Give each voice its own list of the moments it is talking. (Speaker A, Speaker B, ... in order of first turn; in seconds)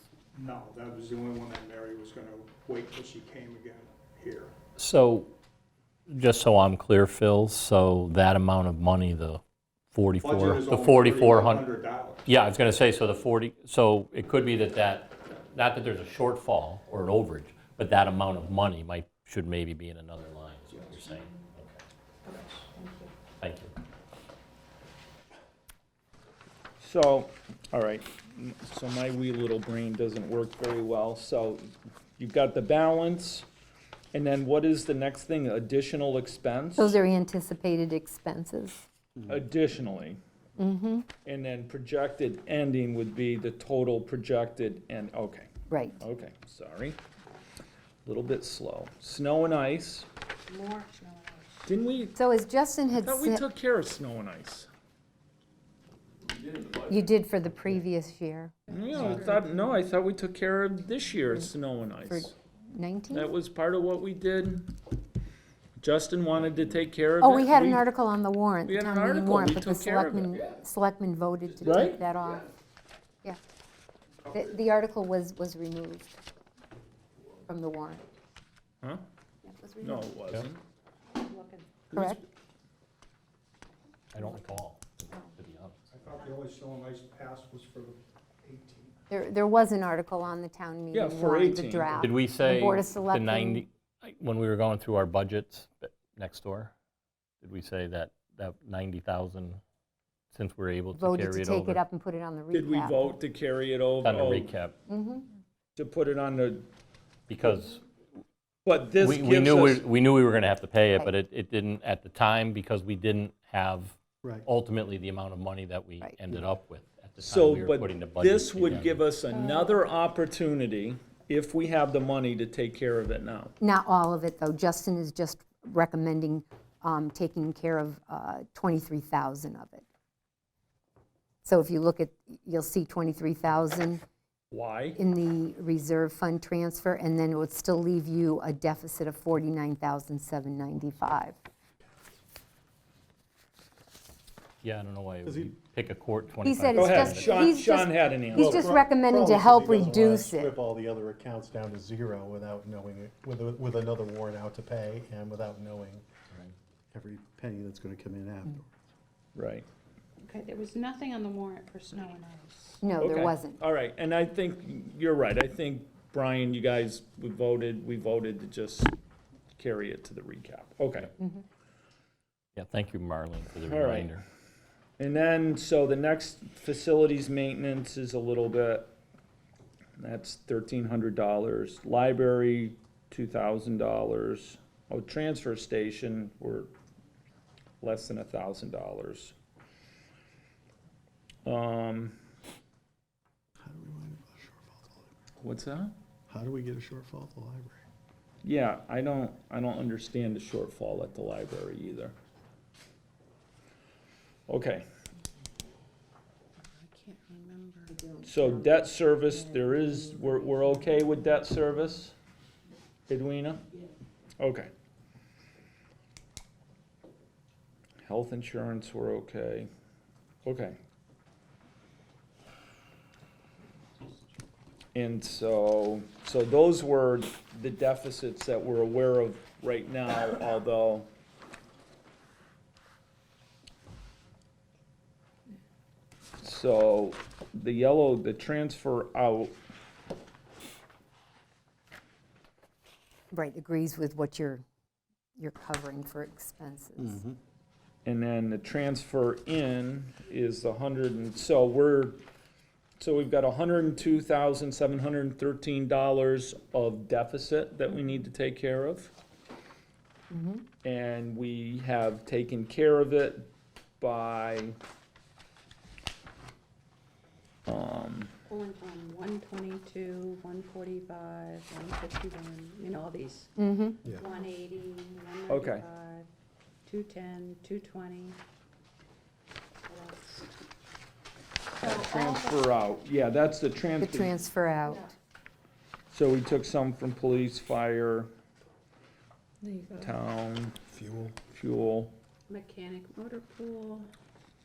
Speaker A: 0.3-4.5, 10.2-12.3, 85.9-88.9
Speaker B: 4.8-5.3, 6.1-11.7, 12.2-21.8, 23.4-23.7, 84.1-85.8, 92.0-96.7, 97.4-99.6, 100.3-101.8, 104.0-104.8, 107.3-107.8, 109.0-119.0, 144.6-147.3, 172.5-174.2
Speaker C: 22.2-23.1, 50.5-51.7, 81.1-81.8, 119.3-119.8, 160.2-162.8, 206.6-208.0, 268.5-276.3, 276.8-278.4, 279.9-280.5, 281.8-282.6, 284.9-285.1, 289.6-290.1, 292.5-294.1
Speaker D: 26.8-33.5, 34.1-37.0, 39.2-40.2, 41.2-47.0, 48.0-50.1, 51.7-52.1, 53.0-54.7, 58.7-62.3, 63.1-64.7, 65.8-67.9, 68.6-70.4, 71.6-72.0, 79.8-80.6, 90.9-92.0, 102.5-104.5, 105.8-106.7, 108.6-109.8, 117.2-123.5, 134.5-135.0, 146.7-148.7, 159.3-159.7, 163.0-168.9, 169.6-171.1, 173.6-174.2, 175.0-178.9, 180.0-186.7, 187.8-189.3, 191.4-192.2, 195.4-195.9, 198.4-202.1, 204.5-204.9, 208.2-212.1, 213.1-213.7, 214.4-214.7, 218.0-219.7, 220.4-220.8, 224.9-231.1, 236.4-239.6, 248.0-252.2, 253.0-259.1, 260.8-264.8, 267.7-268.4, 275.5-275.9, 281.8-284.4, 286.1-288.3, 290.0-290.8, 291.5-292.1
Speaker E: 36.8-38.8, 40.6-41.1, 45.7-46.0, 52.1-53.4, 56.9-58.5, 62.1-63.3, 67.2-72.5, 74.3-76.2, 77.5-78.0, 79.5-80.0, 81.9-82.2, 89.1-93.7, 100.9-103.2, 104.9-105.2, 123.6-129.8, 131.4-134.0, 134.9-141.4, 146.4-150.5, 162.8-163.6, 207.9-208.7, 243.3-244.6, 245.4-247.2, 260.3-260.6, 273.6-274.1, 284.0-285.1
Speaker F: 145.2-145.5, 148.3-156.0, 156.9-158.7, 193.6-195.1, 196.3-197.8, 247.1-247.3, 290.9-291.4